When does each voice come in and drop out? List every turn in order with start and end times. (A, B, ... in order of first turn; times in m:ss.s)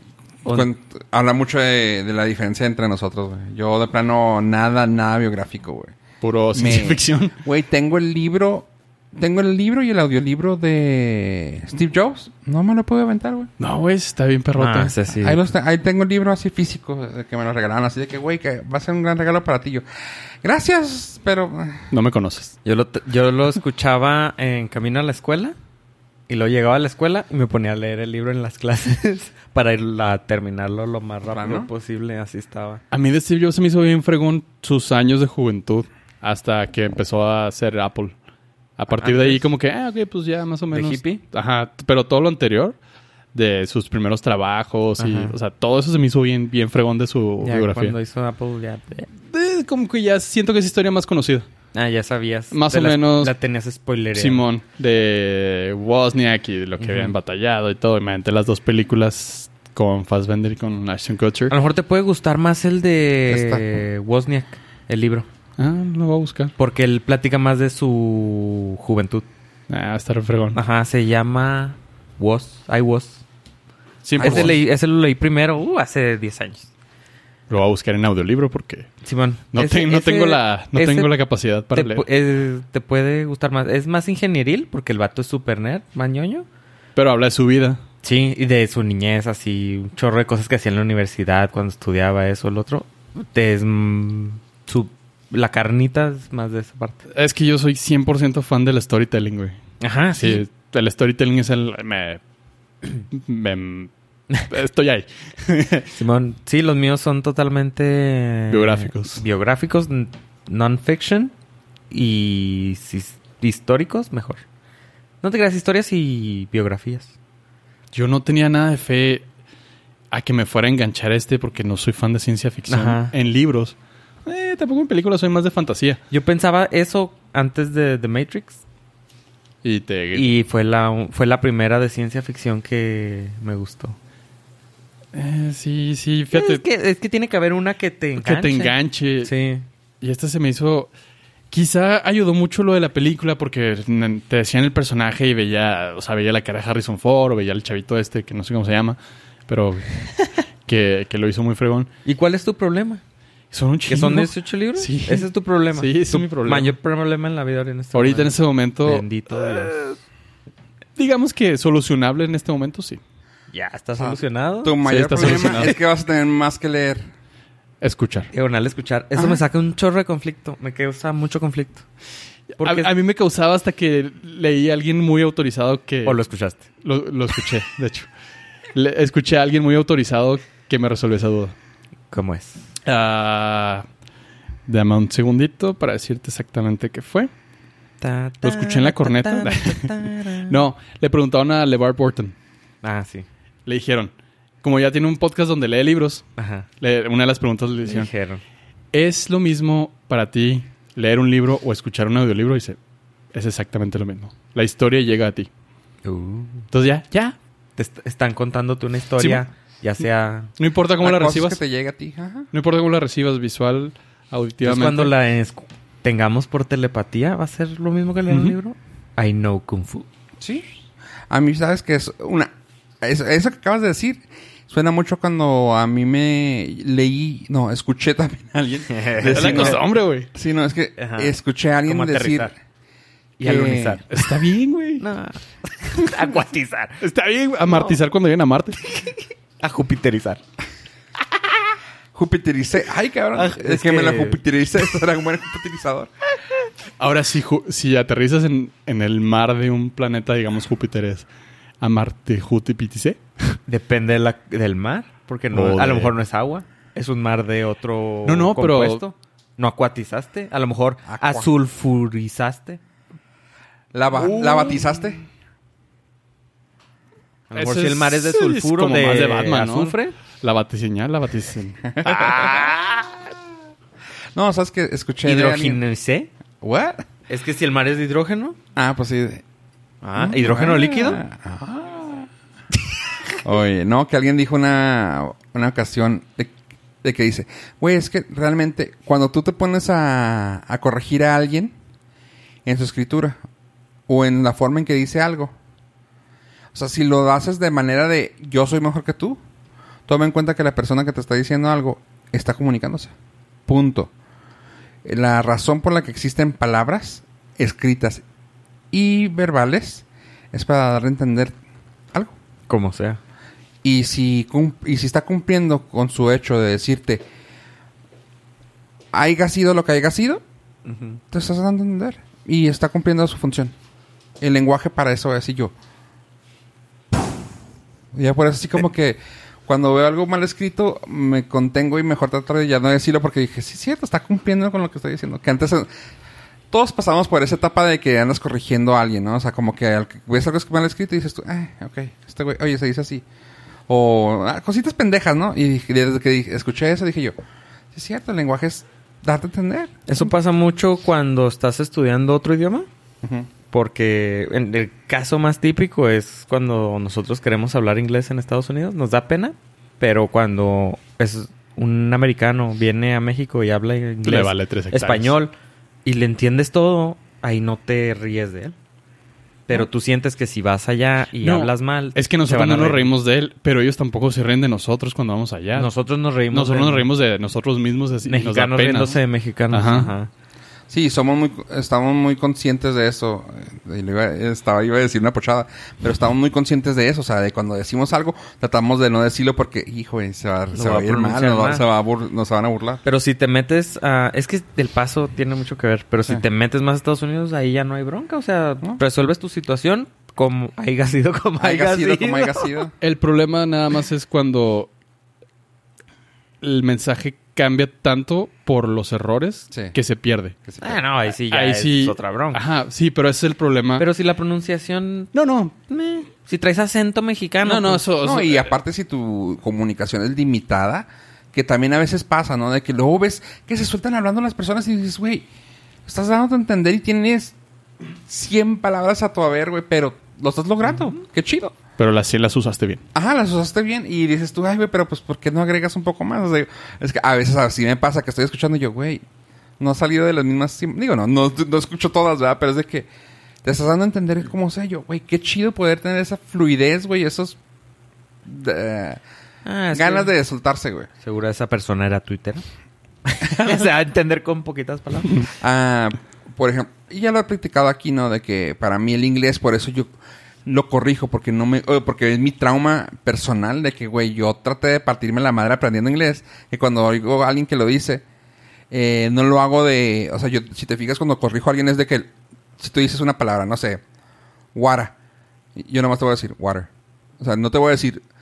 0:00.4-0:06.0 A
0:06.2-0:07.3 B
0:06.5-0:13.5 A
0:13.6-0:14.9 B
0:14.6-0:15.4 C
0:15.1-0:19.8 A
0:20.4-0:21.9 A
0:21.9-0:22.5 B
0:22.6-0:25.6 C
0:26.3-0:32.8 C
0:31.3-0:31.7 A
0:32.9-0:38.1 B
0:38.8-0:42.8 B
0:38.9-0:39.4 C
0:40.7-0:41.2 C
0:43.3-0:47.9 B
0:45.0-0:45.4 C
0:47.4-0:49.1 C
0:49.3-0:51.5 B
0:51.7-0:54.4 C
0:52.5-0:53.3 B
0:54.1-1:01.5 B
0:56.8-0:57.1 C
1:01.5-1:05.3 C
1:03.3-1:03.7 A
1:05.6-1:06.5 B
1:06.6-1:09.2 C
1:09.7-1:10.6 B
1:10.5-1:13.2 C
1:14.0-1:14.6 B
1:14.2-1:14.5 A
1:14.2-1:16.7 C
1:17.5-1:18.9 B
1:19.0-1:21.1 C
1:19.5-1:22.0 B
1:21.7-1:26.4 C
1:27.0-1:27.8 B
1:28.0-1:37.0 C
1:37.1-1:39.6 B
1:39.8-1:40.4 C
1:40.1-1:42.2 B
1:43.1-1:43.9 B
1:44.4-1:45.9 B
1:45.9-1:51.3 C
1:48.5-1:49.2 B
1:51.9-1:54.4 C
1:55.2-1:57.1 C
1:57.9-1:59.2 B
2:00.1-2:06.0 B
2:02.7-2:03.1 C
2:06.1-2:08.6 C
2:09.6-2:10.3 B
2:10.1-2:14.0 C
2:15.1-2:16.6 B
2:16.3-2:19.6 C
2:18.2-2:19.3 B
2:20.0-2:20.9 B
2:21.5-2:31.9 B
2:32.0-2:33.0 C
2:33.5-2:36.7 B
2:33.9-2:39.8 C
2:37.9-2:39.8 B
2:41.0-2:43.0 B
2:43.5-2:45.7 C
2:44.0-2:47.1 A
2:44.8-2:45.8 B
2:47.8-2:48.3 B
2:48.3-2:51.8 C
2:49.2-2:49.4 A
2:52.6-2:56.2 B
2:52.6-2:52.9 C
2:56.0-2:56.6 C
2:56.8-2:58.1 B
2:58.7-3:01.5 B
3:02.1-3:02.6 C
3:02.8-3:03.8 B
3:04.7-3:07.3 B
3:08.0-3:10.6 C
3:08.4-3:12.3 B
3:12.8-3:13.3 C
3:13.6-3:14.1 B
3:14.6-3:16.2 B
3:16.4-3:16.7 C
3:16.8-3:18.1 B
3:17.8-3:18.4 C
3:18.9-3:22.8 B
3:23.3-3:25.5 B
3:26.0-3:26.7 C
3:26.7-3:27.4 B
3:27.8-3:30.5 C
3:30.6-3:31.6 B
3:31.0-3:32.5 A
3:32.5-3:35.1 B
3:34.6-3:40.0 C
3:38.3-3:38.6 B
3:40.4-3:40.7 A
3:41.3-3:52.5 A
3:48.9-3:49.8 C
3:49.3-3:50.3 B
3:51.0-3:52.5 C
3:53.4-3:54.0 C
3:53.4-3:54.0 A
3:54.1-3:55.1 B
3:55.0-3:57.0 C
3:57.0-3:58.8 B
3:57.6-3:58.0 C
3:58.9-4:00.4 C
4:02.1-4:06.1 A
4:03.3-4:04.4 C
4:07.0-4:11.2 B
4:11.8-4:13.6 B
4:13.7-4:22.8 C
4:15.5-4:16.1 B
4:18.2-4:19.0 B
4:21.0-4:21.5 A
4:23.9-4:25.2 A
4:24.2-4:24.9 B
4:27.5-4:30.2 C
4:27.5-4:33.0 B
4:31.8-4:32.7 A
4:34.3-4:35.8 A
4:35.2-4:36.3 C
4:36.6-4:37.0 A
4:37.3-4:38.6 C
4:38.8-4:39.4 A
4:40.0-4:41.2 C
4:40.2-4:42.3 A
4:43.4-4:51.7 A
4:52.6-4:53.4 A
4:54.1-4:55.5 A
4:56.7-4:59.4 A
5:00.1-5:03.1 A
5:03.7-5:04.1 A
5:05.0-5:08.2 A
5:08.9-5:11.5 A
5:12.7-5:13.2 C
5:13.8-5:17.2 A
5:19.1-5:20.4 A
5:20.8-5:21.2 C
5:21.3-5:23.7 A
5:24.4-5:25.7 A
5:28.1-5:35.9 A
5:36.7-5:43.2 A
5:43.9-5:47.3 A
5:47.9-5:50.3 A
5:50.1-5:52.9 C
5:53.2-5:53.5 A
5:53.7-6:05.5 C
6:04.2-6:05.3 B
6:06.0-6:08.7 C
6:09.7-6:13.1 C
6:11.4-6:15.9 B
6:15.7-6:17.1 C
6:16.5-6:19.2 B
6:18.2-6:20.3 C
6:19.7-6:20.1 B
6:20.9-6:33.0 A
6:30.7-6:31.8 C
6:33.0-6:42.7 C
6:41.6-6:42.9 A
6:43.0-6:44.9 B
6:46.6-6:50.6 B
6:50.6-6:51.0 A
6:50.8-6:52.6 C
6:51.4-6:54.0 B
6:54.0-6:55.3 C
6:55.3-6:55.7 B
6:55.9-6:58.0 C
6:57.6-6:58.7 B
6:58.2-7:05.5 A
7:06.0-7:07.5 A
7:08.2-7:11.7 A
7:12.0-7:13.0 B
7:13.1-7:19.2 A
7:19.8-7:23.1 A
7:23.6-7:27.6 A
7:28.4-7:29.2 A
7:29.6-7:30.3 C
7:29.9-7:31.1 A
7:31.2-7:32.6 C
7:33.2-7:35.5 C
7:33.5-7:33.8 A
7:35.6-7:40.1 A
7:40.6-7:48.2 A
7:48.9-7:54.0 A
7:54.7-7:55.1 A
7:55.8-7:56.9 A
7:57.4-7:58.2 A